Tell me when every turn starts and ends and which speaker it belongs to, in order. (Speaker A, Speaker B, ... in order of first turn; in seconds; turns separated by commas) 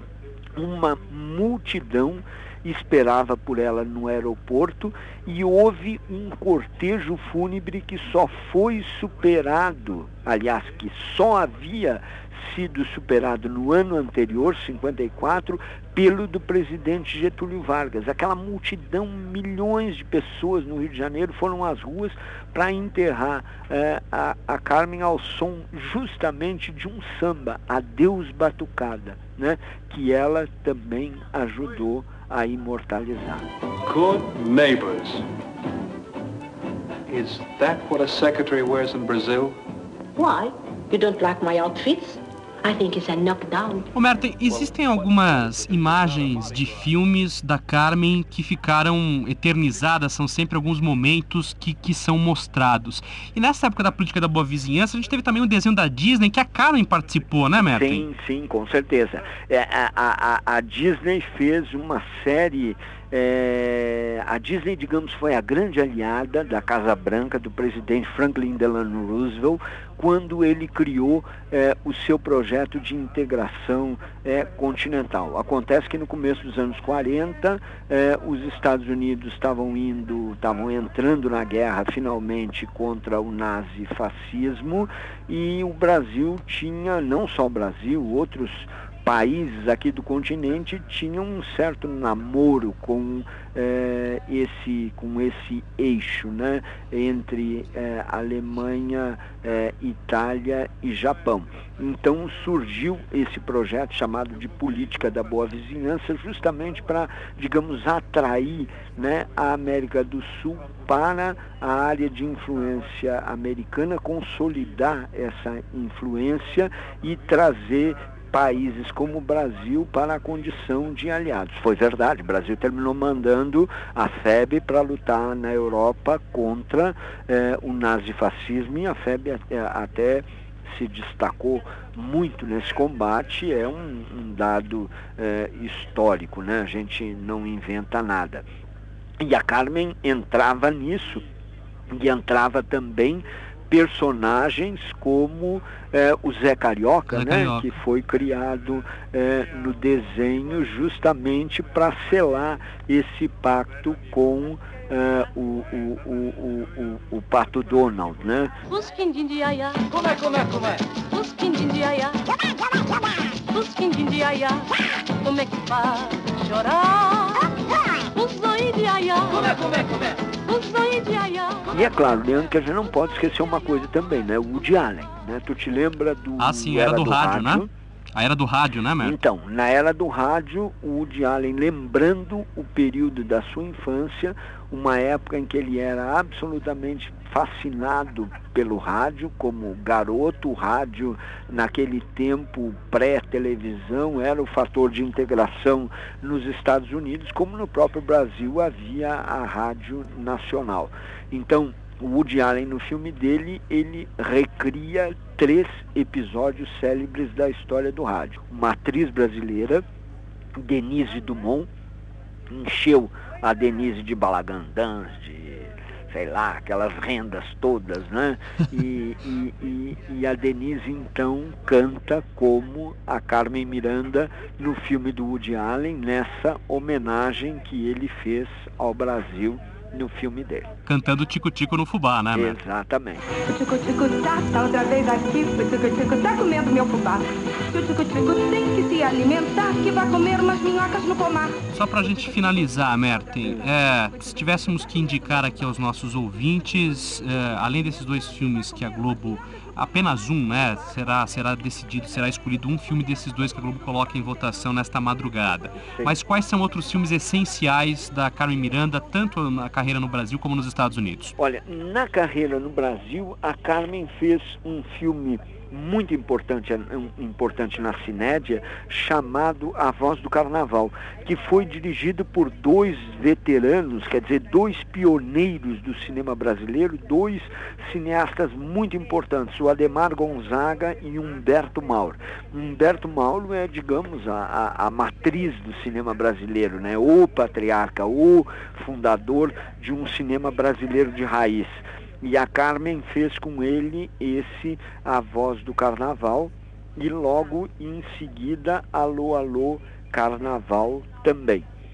Speaker A: 0.6-33.5, Speaker B: 33.9-35.2, Speaker B: 37.1-39.6, Speaker C: 40.2-43.9, Speaker D: 43.9-58.0, Speaker A: 57.6-138.5, Speaker A: 139.2-141.2, Speaker A: 141.9-158.6, Speaker D: 147.1-147.7, Speaker E: 158.7-162.2, Speaker E: 163.5-167.5, Speaker E: 168.1-171.7, Speaker A: 171.7-177.7, Speaker D: 176.4-179.2, Speaker A: 179.0-209.8, Speaker A: 210.6-211.7, Speaker A: 212.5-230.7, Speaker D: 230.8-232.6, Speaker A: 232.3-233.2, Speaker F: 233.4-241.6, Speaker D: 241.7-261.4, Speaker A: 261.4-301.7